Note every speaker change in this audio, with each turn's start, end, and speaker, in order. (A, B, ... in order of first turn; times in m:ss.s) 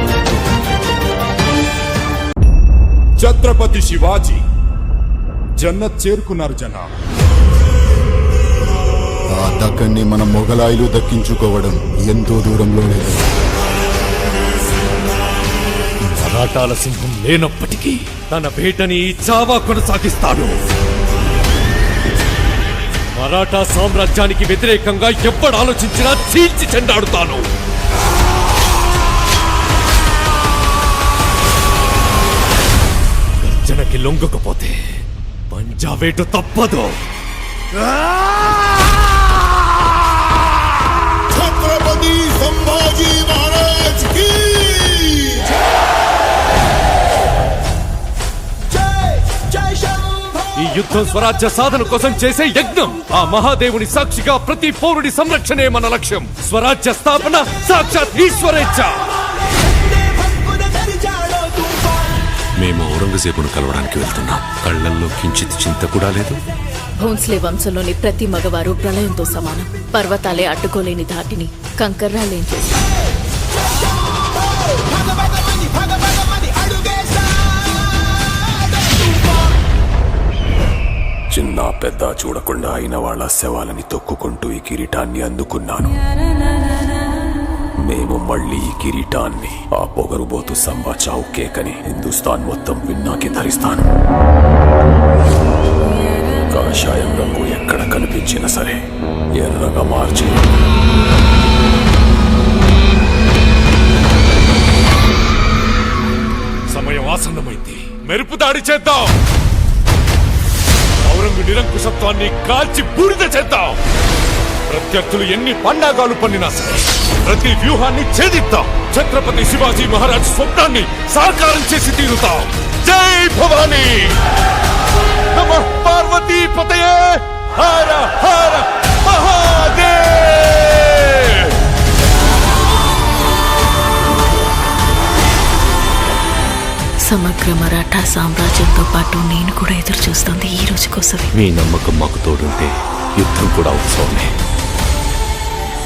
0:03.2-0:04.4 A
0:05.6-0:06.8 A
0:09.4-0:13.3 B
0:16.1-0:20.5 C
0:23.1-0:27.5 C
0:33.4-0:37.0 C
0:41.3-0:45.5 B
0:50.5-0:59.0 C
1:02.6-1:06.4 D
1:07.0-1:12.8 E
1:21.3-1:25.9 D
1:27.8-1:33.8 D
1:36.5-1:38.8 D
1:39.3-1:40.5 D
1:46.7-1:49.1 C
1:51.0-1:53.8 C
1:54.7-2:04.2 C
2:05.3-2:11.6 C
2:17.0-2:21.3 E
2:21.4-2:24.3 D